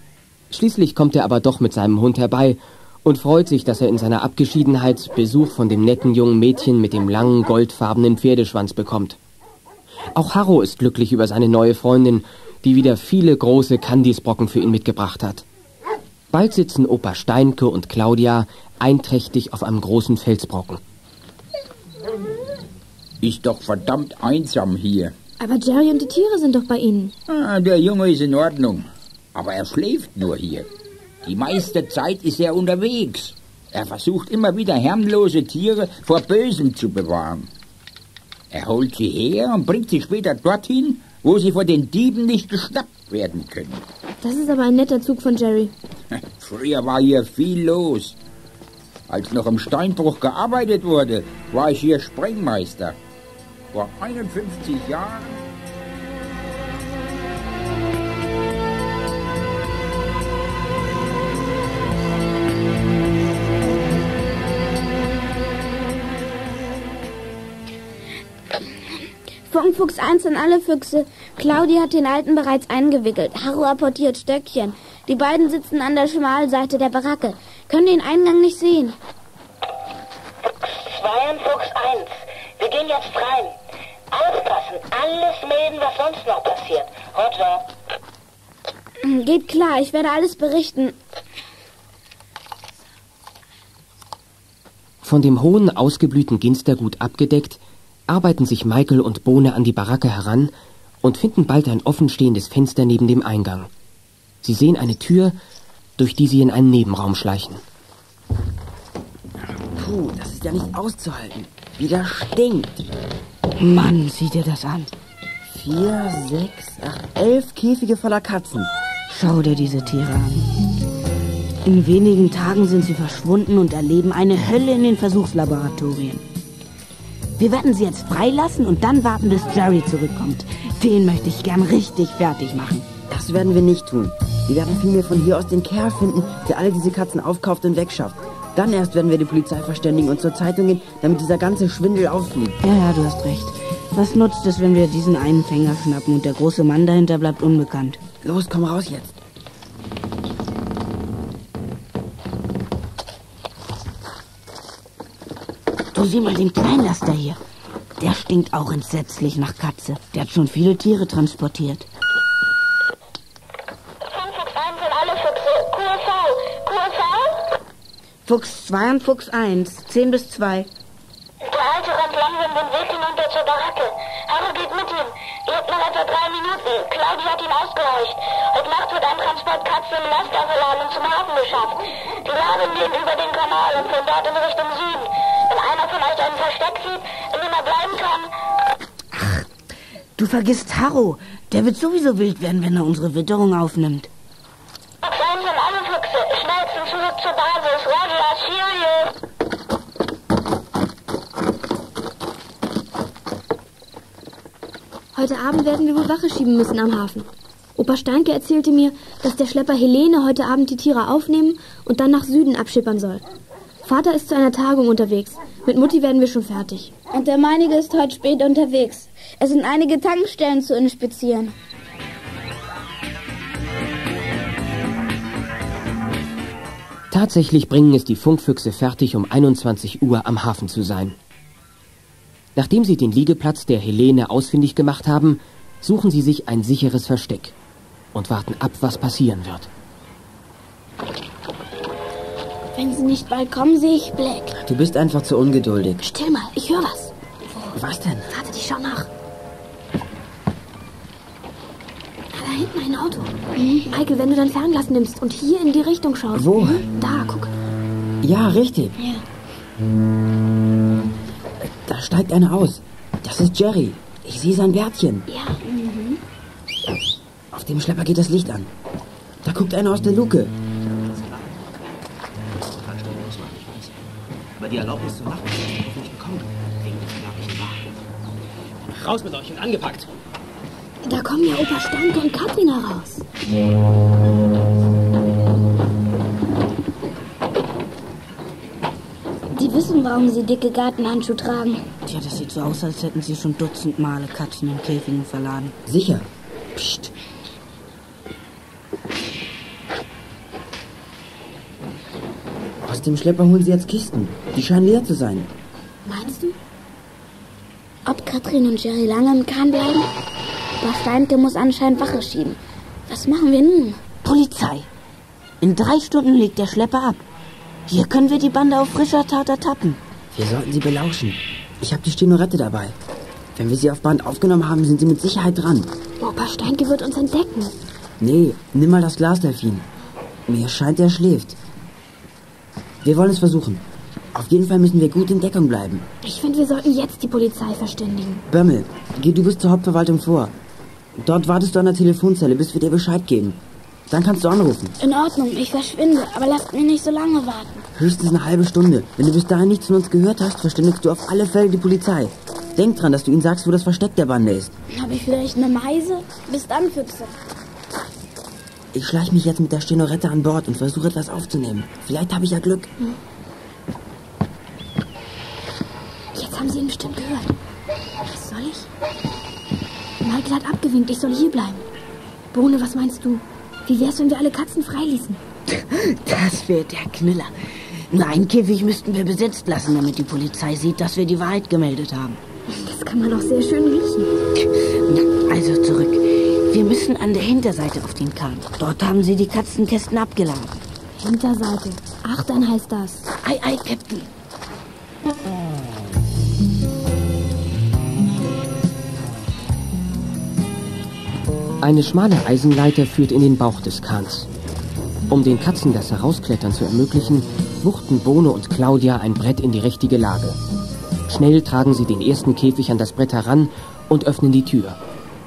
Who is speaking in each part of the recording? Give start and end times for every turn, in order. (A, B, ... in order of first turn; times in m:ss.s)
0:00.5-0:09.2 A
0:10.2-0:15.4 A
0:16.3-0:20.8 A
0:23.2-0:25.1 B
0:25.4-0:27.1 C
0:27.3-0:30.7 B
0:31.2-0:37.5 B
0:38.5-0:43.8 B
0:44.2-0:45.7 C
0:46.4-0:48.2 B
0:49.1-0:53.0 B
0:53.7-0:55.4 B
1:09.5-1:19.0 D
1:20.5-1:23.5 E
1:24.1-1:27.6 E
1:29.0-1:30.9 D
1:35.0-1:40.5 A
1:41.0-1:43.7 A
1:44.4-1:45.3 A
1:46.0-1:47.6 A
1:49.7-1:52.9 F
1:53.6-1:54.9 G
1:55.5-1:58.7 F
1:59.1-2:00.5 G
2:01.6-2:06.2 G
2:07.4-2:12.9 G
2:13.1-2:22.6 F
2:22.6-2:28.0 G
2:28.2-2:29.1 F
2:35.9-2:37.4 G
2:38.0-2:41.9 G
2:44.1-2:47.4 E
2:48.2-2:50.7 G
2:51.4-3:08.3 E
3:09.2-3:09.4 G
3:10.2-3:14.1 G
3:15.0-3:19.1 E
3:25.1-3:33.2 C
3:33.8-3:36.9 C
3:37.1-3:41.5 D
3:47.1-3:51.2 A
3:52.6-3:57.5 A
3:58.1-3:59.7 A
4:02.8-4:04.5 D
4:04.6-4:06.0 F
4:06.0-4:07.1 C
4:07.7-4:08.3 F
4:08.3-4:09.1 C
4:12.3-4:17.5 C
4:16.3-4:16.8 F
4:18.2-4:18.9 F
4:21.6-4:25.2 F
4:25.3-4:25.6 C
4:25.6-4:26.2 D
4:27.5-4:28.7 F
4:29.4-4:30.5 F
4:31.1-4:31.6 H
4:32.4-4:33.9 H
4:34.6-4:37.8 H
4:38.9-4:40.1 H
4:41.0-4:43.2 C
4:49.5-4:51.8 D
4:52.0-4:55.7 G
4:55.9-4:57.1 F
5:02.8-5:05.5 F
5:06.0-5:06.6 C
5:08.0-5:10.1 D
5:10.8-5:14.0 D
5:14.2-5:14.9 G
5:15.6-5:17.2 G
5:17.9-5:20.0 G
5:20.3-5:23.0 F
5:23.6-5:25.9 F
5:26.2-5:27.7 C
5:28.2-5:29.9 F
5:30.5-5:31.6 F
5:33.0-5:33.8 F
5:34.3-5:36.0 F
5:36.2-5:38.4 C
5:38.5-5:40.5 F
5:41.2-5:44.9 F
5:45.0-5:47.8 D
5:48.0-5:54.7 F
5:54.9-5:57.3 D
5:58.9-6:02.9 F
6:06.3-6:07.5 C
6:08.3-6:08.9 C
6:10.2-6:11.8 C
6:12.5-6:15.4 C
6:15.7-6:17.5 G
6:18.1-6:22.4 G
6:22.7-6:24.3 C
6:25.0-6:30.8 G
6:31.2-6:33.2 C
6:33.4-6:34.3 G
6:41.8-6:44.5 A
6:45.3-6:50.6 A
6:51.3-6:55.0 A